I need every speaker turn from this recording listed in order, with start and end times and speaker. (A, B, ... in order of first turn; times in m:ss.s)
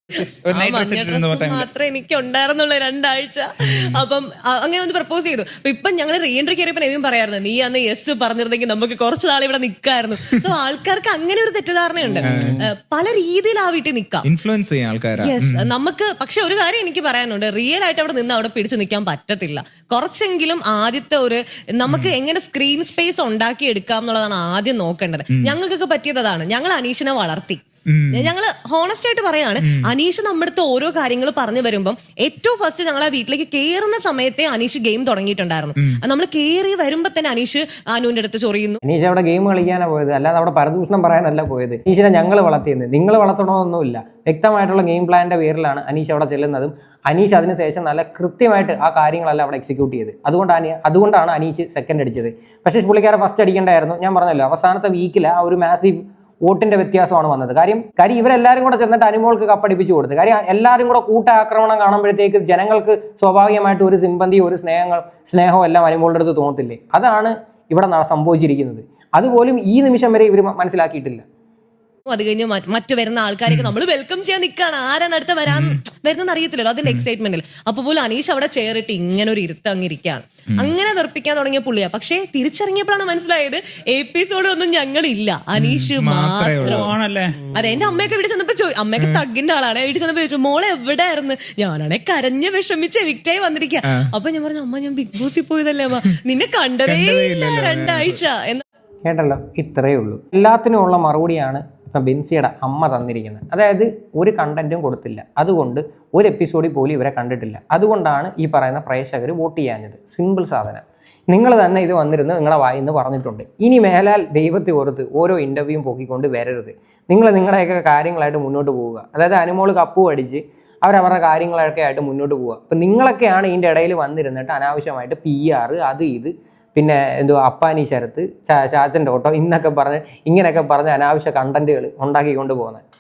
0:00.2-0:01.7 A
0:00.5-0:14.3 B
0:12.2-0:12.7 C
0:14.2-0:15.7 C
0:15.2-0:38.8 B
0:21.9-0:22.1 C
0:27.9-0:28.3 C
0:38.8-1:11.2 D
1:12.1-1:26.9 B
1:15.5-1:15.8 C
1:25.6-1:26.8 C
1:26.6-1:27.4 A
1:27.6-1:38.6 B
1:36.9-1:38.2 C
1:39.0-2:12.8 D